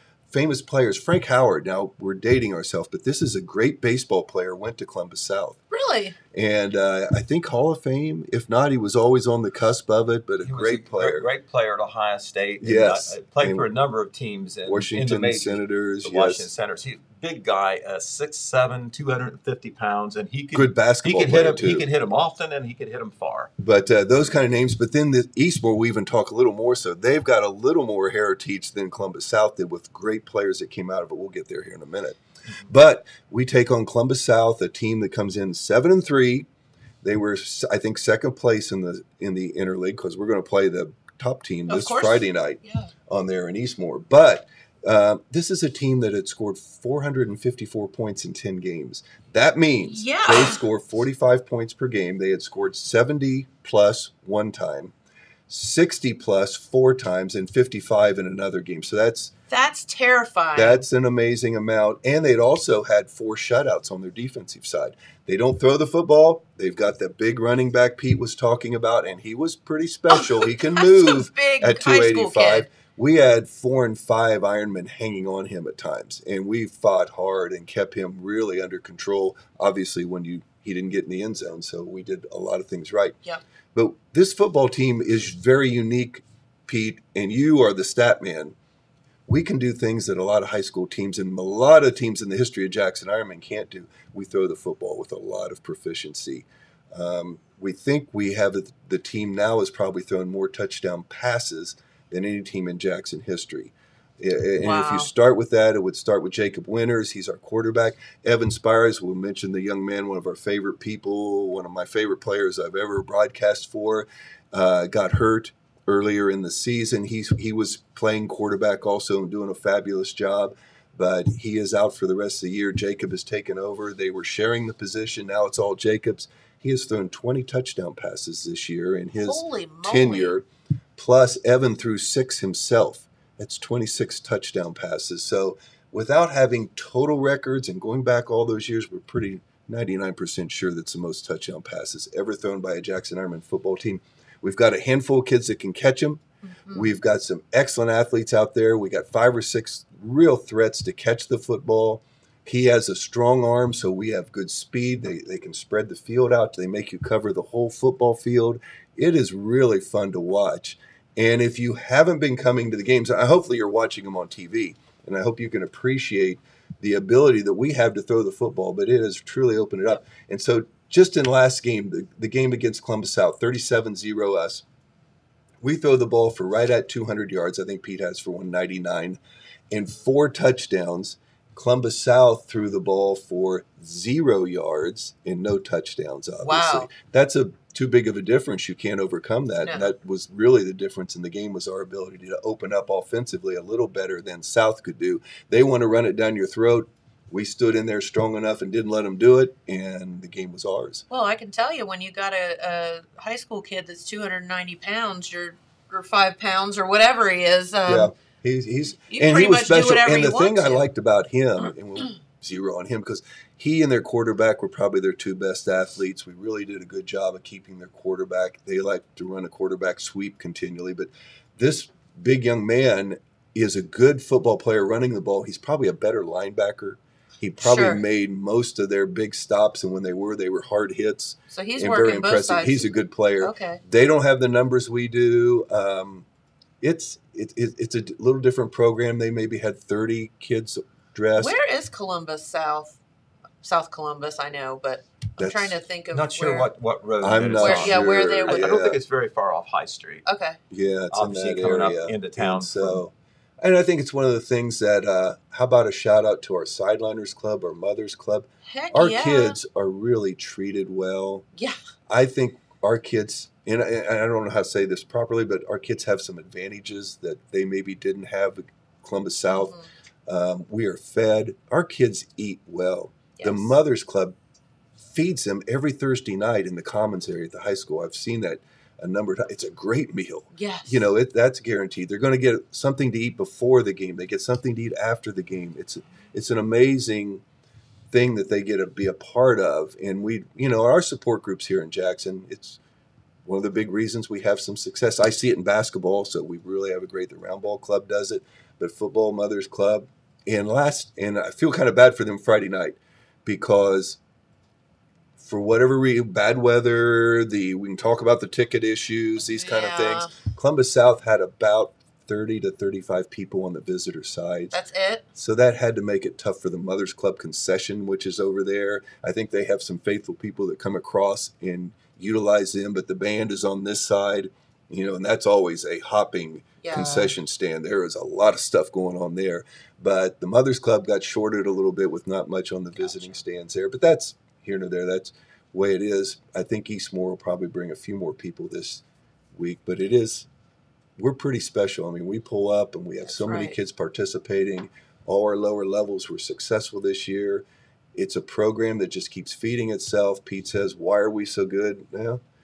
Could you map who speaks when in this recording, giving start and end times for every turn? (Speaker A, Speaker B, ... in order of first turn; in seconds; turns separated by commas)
Speaker A: 0.3-5.6, Speaker B: 5.7-6.2, Speaker A: 6.3-11.3, Speaker C: 10.4-23.5, Speaker A: 12.6-13.7, Speaker A: 14.7-16.5, Speaker A: 20.5-21.9, Speaker A: 23.6-36.5, Speaker A: 37.0-54.9, Speaker B: 41.7-42.9, Speaker B: 49.9-50.6, Speaker A: 55.5-59.3, Speaker B: 59.5-60.8, Speaker A: 60.5-83.2, Speaker B: 70.1-72.7, Speaker A: 83.7-88.5, Speaker A: 89.3-174.6, Speaker B: 104.6-105.1, Speaker B: 129.2-130.3, Speaker B: 146.4-146.9, Speaker A: 175.6-179.2, Speaker A: 179.7-201.0, Speaker B: 186.4-186.9, Speaker B: 189.6-189.9, Speaker B: 201.1-208.1, Speaker A: 207.9-236.2, Speaker B: 209.1-210.8, Speaker B: 227.6-228.0, Speaker B: 231.5-233.8, Speaker A: 236.8-241.6, Speaker B: 241.4-243.0, Speaker B: 243.6-246.7, Speaker A: 245.4-245.8, Speaker C: 246.1-250.2, Speaker A: 247.2-249.0, Speaker B: 247.6-248.8, Speaker B: 250.2-250.6, Speaker A: 250.7-261.4, Speaker C: 251.1-253.0, Speaker B: 258.7-259.6, Speaker A: 262.1-269.7, Speaker B: 269.5-269.9, Speaker A: 270.3-274.4, Speaker B: 273.4-273.8, Speaker A: 275.1-287.4, Speaker B: 280.6-281.0, Speaker A: 288.1-292.8, Speaker A: 293.4-304.2, Speaker A: 305.4-314.8, Speaker B: 309.6-310.4, Speaker B: 314.7-315.2, Speaker A: 315.4-339.0, Speaker B: 326.8-327.3, Speaker B: 333.0-333.4, Speaker A: 339.5-340.5, Speaker A: 341.2-352.4, Speaker B: 343.3-343.8